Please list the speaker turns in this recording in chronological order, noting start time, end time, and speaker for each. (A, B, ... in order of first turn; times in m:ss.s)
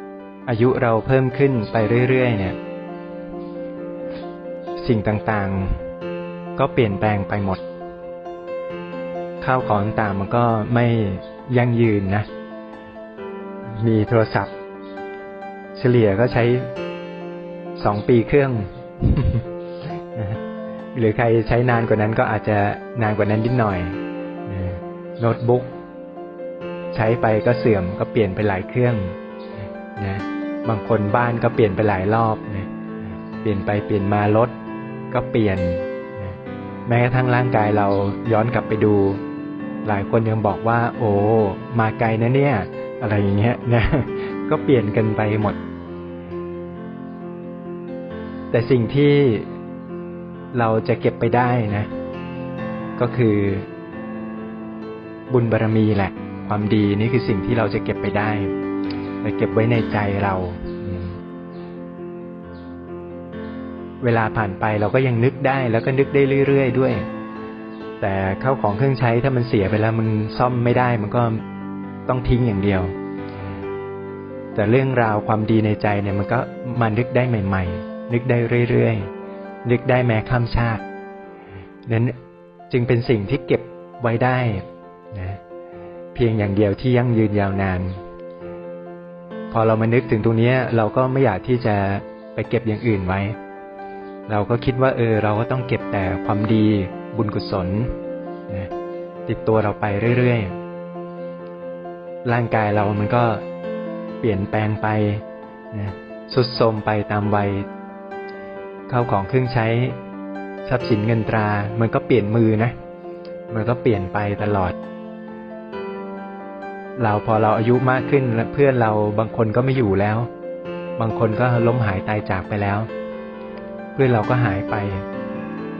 0:00.4-0:02.6 A
0:04.8-0:05.8 A
0:06.6-0:07.6 A
0:09.4-0:12.3 A
0:13.6-0:14.5 A
0:15.8-0:16.7 A
0:17.8-0:20.4 A
0:20.9-0:25.7 A
0:26.9-0:29.2 A
0:30.0-0:32.7 A
0:33.4-0:34.6 A
0:35.1-0:39.2 A
0:39.8-0:45.6 A
0:48.5-0:49.5 A
0:50.5-0:51.9 A
0:53.0-0:53.7 A
0:55.3-0:58.5 A
0:59.2-1:01.2 A
1:04.0-1:07.1 A
1:08.0-1:11.4 A
1:12.1-1:12.9 A
1:14.5-1:19.1 A
1:19.6-1:20.8 A
1:21.9-1:22.2 A
1:22.7-1:25.4 A
1:26.1-1:28.0 A
1:29.5-1:33.4 A
1:34.3-1:38.0 A
1:39.3-1:40.5 A
1:42.2-1:43.4 A
1:44.2-1:47.7 A
1:48.9-1:50.0 A
1:50.6-1:52.7 A
1:53.5-1:54.8 A
1:57.0-2:00.3 A
2:01.0-2:02.9 A
2:04.0-2:05.0 A